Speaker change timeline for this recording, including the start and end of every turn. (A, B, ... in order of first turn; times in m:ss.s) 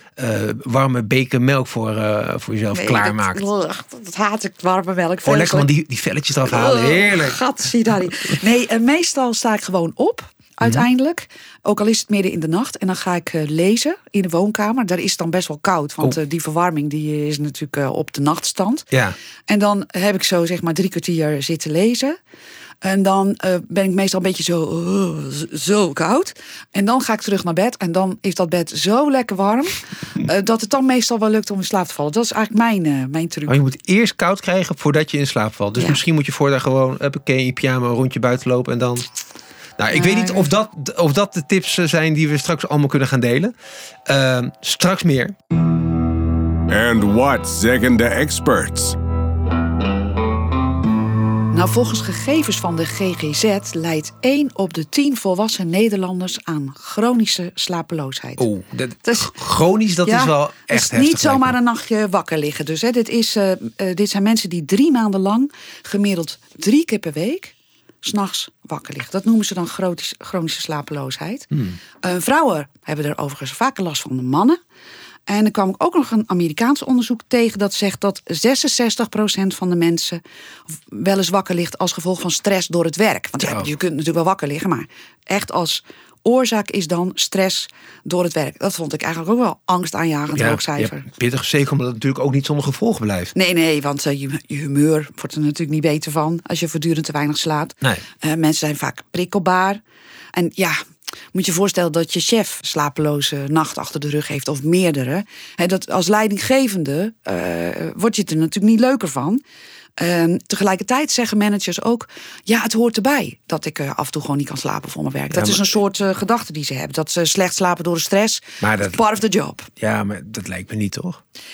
0:00.2-0:03.4 A
0:02.7-0:05.7 B
0:05.2-0:07.4 A
0:06.4-0:18.9 B
0:19.5-0:22.2 B
0:22.8-0:33.6 B
0:33.5-0:39.0 A
0:39.8-0:43.5 A
0:39.9-0:40.5 B
0:44.1-0:45.3 A
0:46.7-0:49.0 C
0:51.5-0:58.5 B
0:58.4-1:01.5 A
0:59.0-0:59.3 B
1:00.0-1:11.5 B
1:12.0-1:14.6 B
1:15.3-1:31.1 B
1:23.4-1:23.7 A
1:30.3-1:33.3 A
1:33.3-1:39.8 B
1:40.3-1:40.8 B
1:41.3-1:49.4 B
1:50.0-1:59.7 B
1:55.3-1:55.7 A
1:58.6-1:59.0 A
1:59.8-2:01.2 A